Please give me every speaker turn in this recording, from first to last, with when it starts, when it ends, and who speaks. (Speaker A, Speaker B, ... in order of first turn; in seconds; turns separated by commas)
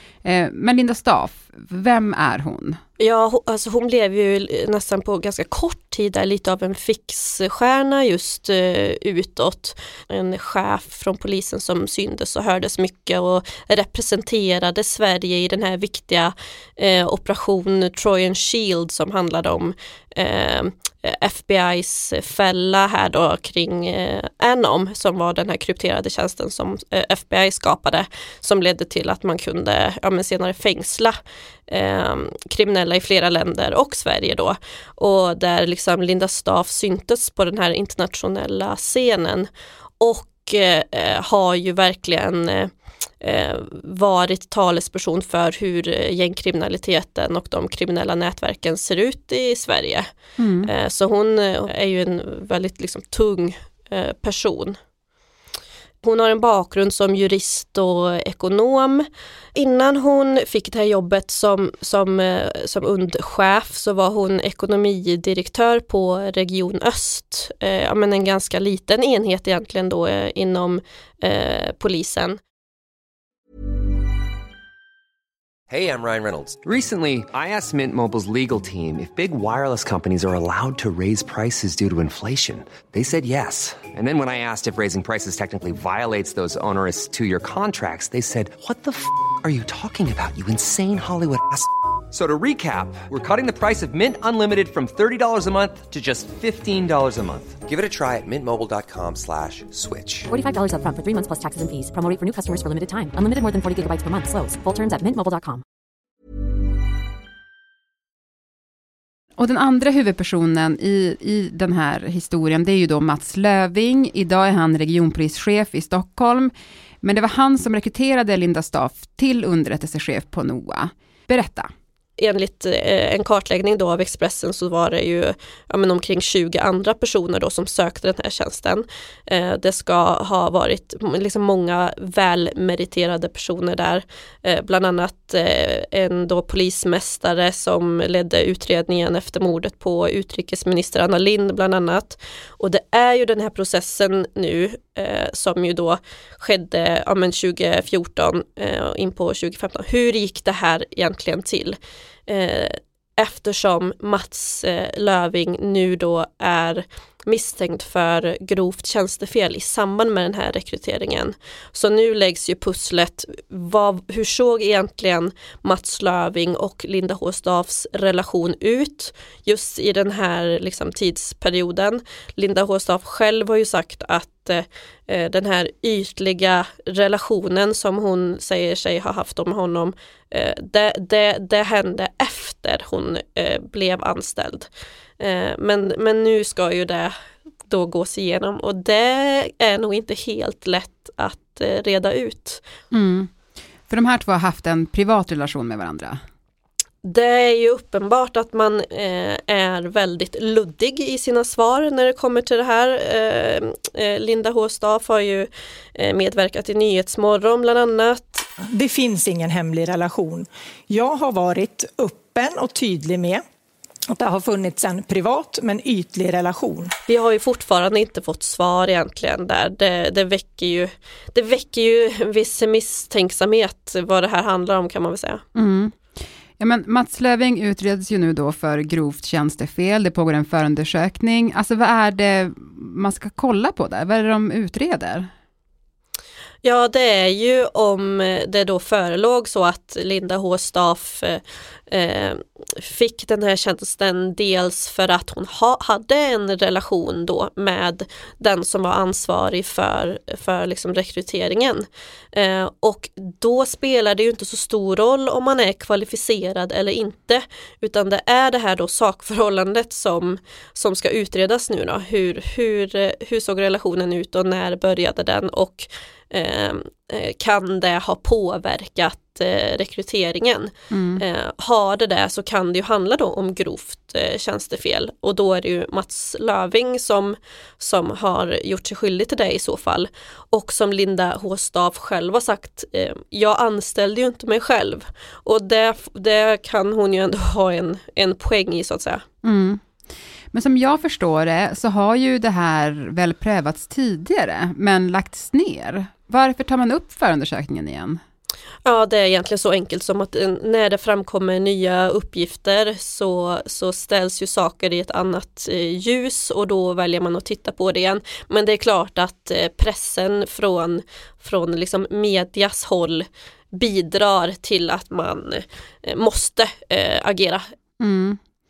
Speaker A: 0.2-2.8, Speaker B: 3.0-31.2, Speaker B: 31.7-39.5, Speaker B: 40.0-50.1, Speaker A: 50.4-50.7, Speaker B: 50.6-54.8, Speaker B: 56.0-72.4, Speaker C: 75.7-100.3, Speaker D: 100.3-105.6, Speaker A: 109.4-121.7, Speaker B: 122.2-184.7, Speaker B: 185.2-187.1, Speaker B: 187.7-192.6, Speaker A: 192.9-193.3, Speaker A: 193.9-196.2, Speaker B: 197.0-208.5, Speaker E: 208.7-213.4, Speaker E: 214.1-216.9, Speaker B: 217.1-225.4, Speaker A: 225.6-226.0, Speaker A: 226.6-235.3, Speaker B: 236.6-289.2, Speaker A: 270.9-271.2, Speaker A: 289.4-289.8, Speaker A: 290.5-298.2, Speaker B: 298.9-317.6, Speaker A: 318.0-318.4